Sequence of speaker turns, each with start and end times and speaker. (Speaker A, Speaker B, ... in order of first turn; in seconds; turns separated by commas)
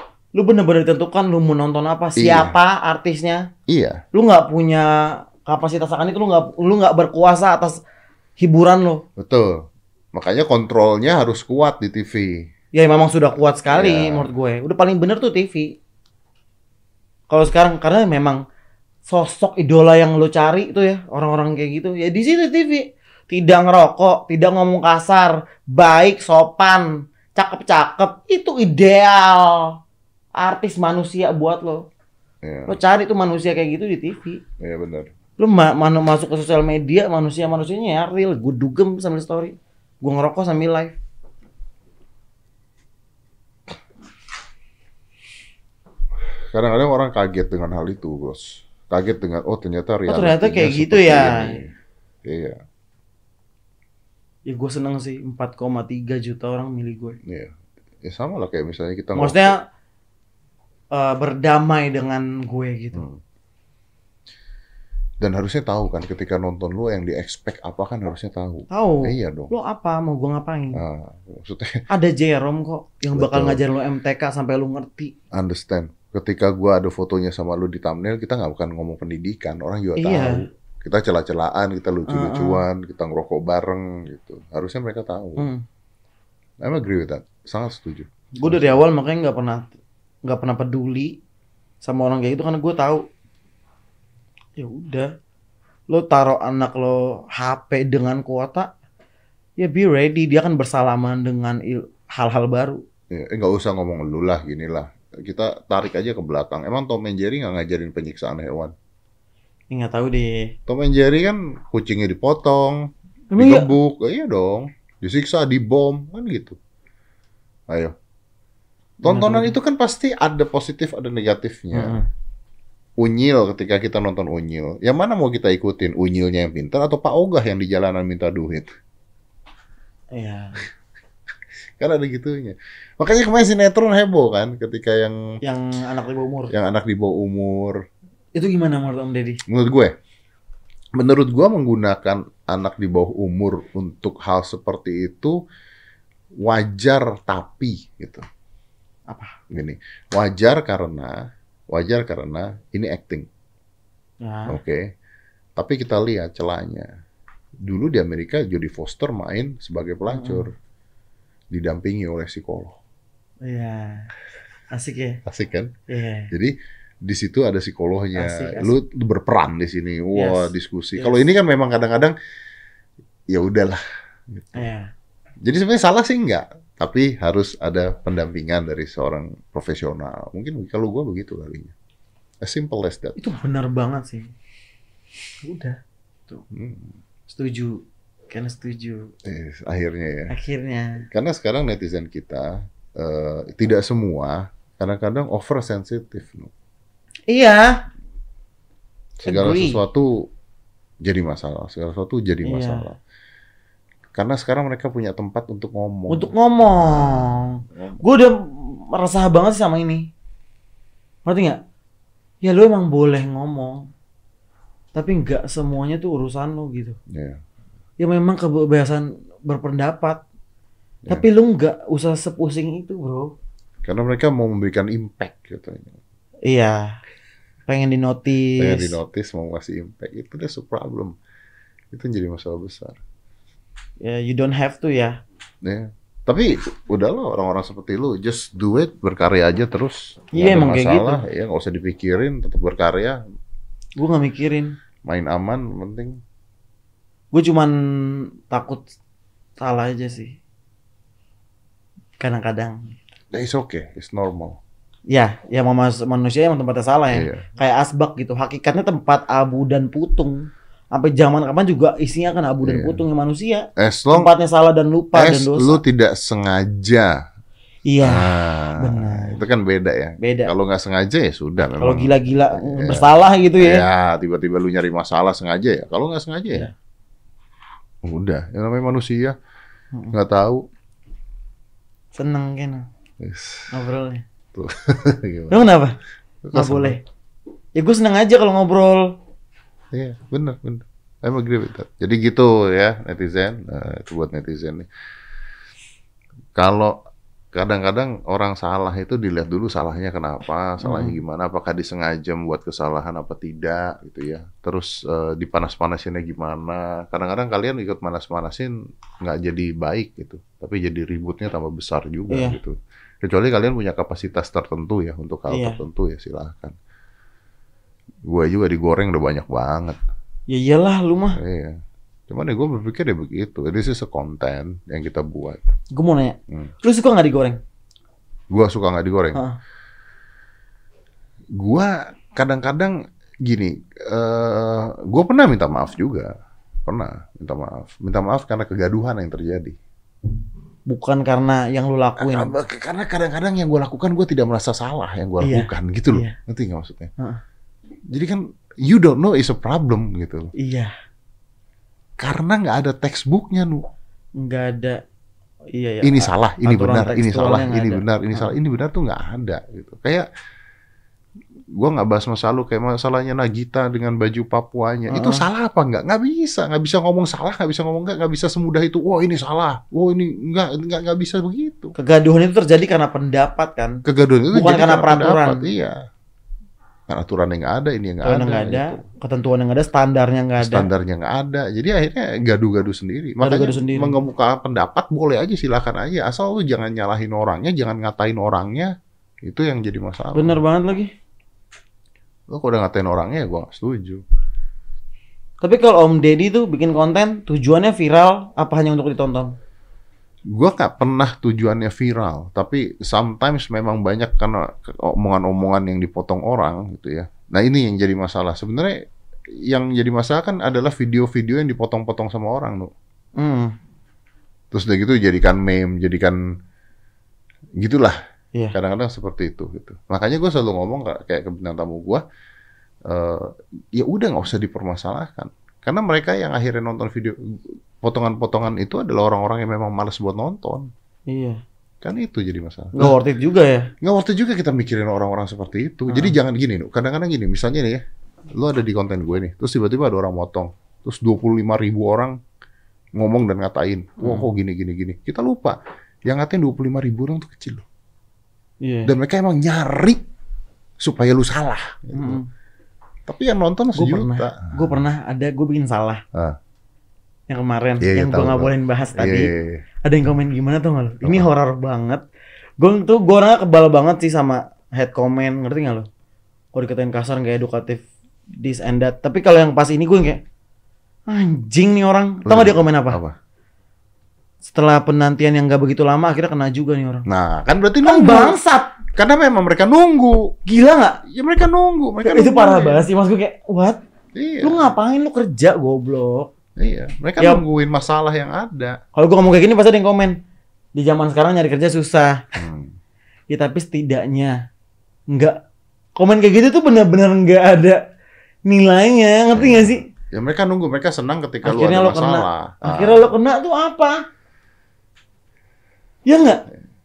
Speaker A: 0.3-3.5, Speaker B: 2.2-2.5, Speaker B: 3.7-4.0, Speaker A: 4.1-7.8, Speaker A: 8.4-9.0, Speaker B: 9.2-12.4, Speaker A: 12.7-15.8, Speaker B: 13.7-14.3, Speaker A: 17.3-18.4, Speaker A: 19.1-29.8, Speaker A: 30.4-31.9, Speaker B: 32.4-32.8, Speaker A: 32.7-34.4, Speaker B: 34.6-35.1, Speaker A: 35.4-41.0, Speaker B: 46.5-51.7, Speaker A: 50.1-51.6, Speaker B: 52.2-52.6, Speaker A: 54.5-57.2, Speaker B: 57.2-59.5, Speaker A: 59.1-59.6, Speaker A: 60.9-63.0, Speaker B: 62.9-63.2, Speaker B: 65.2-69.5, Speaker A: 68.7-70.8, Speaker B: 70.7-71.8, Speaker A: 71.9-75.1, Speaker B: 73.1-73.6, Speaker B: 75.3-85.5, Speaker A: 80.0-80.4, Speaker A: 82.1-82.6, Speaker A: 85.4-85.6, Speaker B: 86.6-88.8, Speaker A: 88.4-89.7, Speaker A: 90.2-91.2, Speaker A: 91.8-93.0, Speaker A: 94.6-95.1, Speaker A: 95.9-98.7, Speaker A: 99.6-102.8, Speaker B: 103.1-108.7, Speaker A: 109.7-110.5, Speaker B: 110.7-116.6, Speaker A: 113.3-113.7, Speaker B: 117.7-117.9, Speaker A: 119.0-119.5, Speaker B: 119.0-122.0, Speaker A: 121.7-122.1, Speaker B: 123.0-128.7, Speaker A: 130.1-130.6, Speaker B: 131.8-135.2, Speaker A: 135.4-136.5, Speaker B: 136.5-137.8, Speaker A: 138.3-139.4, Speaker B: 139.5-139.9, Speaker B: 140.9-145.4, Speaker B: 146.4-148.2, Speaker A: 149.1-149.4, Speaker B: 149.5-151.2, Speaker B: 151.7-153.3, Speaker A: 154.2-154.6, Speaker B: 154.5-154.9, Speaker B: 155.6-156.9, Speaker B: 157.6-160.5, Speaker A: 160.1-160.5, Speaker B: 161.5-162.8, Speaker A: 163.4-164.1, Speaker A: 164.7-165.2, Speaker B: 165.2-165.7, Speaker A: 165.9-166.3, Speaker B: 166.3-172.2, Speaker A: 168.1-168.7, Speaker A: 170.1-171.2, Speaker B: 173.3-174.7, Speaker A: 174.5-174.9, Speaker B: 175.4-181.7, Speaker B: 182.4-183.2, Speaker A: 183.2-184.3, Speaker A: 185.4-186.4, Speaker B: 186.5-186.9, Speaker A: 187.3-189.1, Speaker B: 189.2-190.3, Speaker A: 190.3-191.0, Speaker B: 191.0-196.5, Speaker A: 197.3-197.8, Speaker B: 199.2-200.3, Speaker A: 199.2-199.8, Speaker B: 201.0-203.0, Speaker A: 202.4-202.9, Speaker B: 204.1-208.0, Speaker A: 206.1-210.1, Speaker A: 211.2-211.6, Speaker A: 212.4-213.9, Speaker A: 214.9-217.0, Speaker B: 217.1-217.4, Speaker A: 218.0-220.2, Speaker A: 221.1-223.3, Speaker B: 223.8-226.0, Speaker A: 226.4-227.0, Speaker A: 227.7-228.9, Speaker B: 228.6-231.1, Speaker B: 231.9-233.0, Speaker A: 234.0-235.2, Speaker B: 235.6-243.2, Speaker A: 240.3-241.2, Speaker A: 244.0-244.8, Speaker B: 245.0-246.2, Speaker A: 247.3-248.8, Speaker A: 249.6-250.4, Speaker A: 252.2-252.9, Speaker B: 253.3-254.6, Speaker A: 255.1-265.8, Speaker B: 257.1-257.5, Speaker B: 262.6-263.0, Speaker B: 263.8-264.3, Speaker B: 265.1-267.2, Speaker A: 267.9-269.4, Speaker B: 268.0-276.7, Speaker A: 270.2-270.5, Speaker A: 271.8-273.8, Speaker B: 278.0-279.4, Speaker B: 280.1-280.6, Speaker A: 282.1-282.9, Speaker B: 283.2-283.7, Speaker A: 283.7-284.2, Speaker B: 284.5-285.7, Speaker A: 285.5-286.0, Speaker B: 286.4-287.0, Speaker A: 286.5-287.0, Speaker A: 287.8-289.1, Speaker B: 289.9-294.9, Speaker B: 296.6-297.0, Speaker B: 297.5-316.7, Speaker A: 300.8-301.2, Speaker A: 312.3-312.6, Speaker A: 315.5-315.8, Speaker B: 318.2-320.0, Speaker A: 320.5-321.4, Speaker B: 321.3-325.7, Speaker A: 325.9-327.6, Speaker B: 328.5-329.4, Speaker B: 331.5-336.3, Speaker B: 336.9-339.8, Speaker A: 340.9-342.5, Speaker B: 342.2-347.1, Speaker A: 345.4-346.4, Speaker B: 348.1-350.5, Speaker A: 350.6-350.9, Speaker B: 352.2-353.9, Speaker A: 354.4-355.0, Speaker A: 355.7-358.5, Speaker B: 356.0-360.3, Speaker B: 361.7-371.9, Speaker A: 365.1-365.4, Speaker A: 371.9-375.6, Speaker B: 374.0-376.0, Speaker B: 377.1-379.0, Speaker A: 378.2-380.9, Speaker B: 380.6-388.9, Speaker A: 383.4-384.2, Speaker B: 389.4-390.6, Speaker A: 390.3-391.1, Speaker B: 392.5-394.2, Speaker A: 395.6-399.6, Speaker B: 400.5-409.0, Speaker B: 409.6-412.9, Speaker A: 413.4-413.7, Speaker B: 414.7-416.4, Speaker B: 417.8-418.2, Speaker B: 418.7-422.2, Speaker B: 423.1-427.4, Speaker B: 428.0-430.9, Speaker A: 431.3-431.6, Speaker B: 432.0-433.1, Speaker A: 432.9-433.9, Speaker B: 434.0-438.0, Speaker A: 436.1-436.3, Speaker B: 438.5-442.4, Speaker B: 443.1-447.8, Speaker A: 444.2-444.5, Speaker A: 448.8-449.1, Speaker B: 449.1-450.2, Speaker B: 451.0-452.4, Speaker A: 452.1-452.5, Speaker B: 453.3-454.9, Speaker A: 453.9-456.2, Speaker A: 457.5-459.5, Speaker B: 458.0-459.8, Speaker A: 460.0-462.2, Speaker B: 461.2-461.5, Speaker A: 462.8-466.1, Speaker A: 466.7-468.0, Speaker A: 468.6-470.4, Speaker A: 471.3-473.2, Speaker B: 472.4-473.3, Speaker A: 474.6-477.2, Speaker B: 477.2-478.6, Speaker A: 478.0-479.0, Speaker B: 479.1-480.5, Speaker A: 480.6-481.2, Speaker B: 481.3-483.0, Speaker A: 482.2-484.0, Speaker B: 484.3-484.8, Speaker A: 484.6-486.5, Speaker B: 486.8-489.0, Speaker A: 489.1-490.4, Speaker A: 490.9-492.4, Speaker B: 492.5-492.9, Speaker A: 493.5-494.6, Speaker A: 495.3-495.6, Speaker A: 496.1-498.0, Speaker A: 498.6-500.1, Speaker B: 499.5-503.3, Speaker A: 501.6-504.2, Speaker A: 506.2-506.6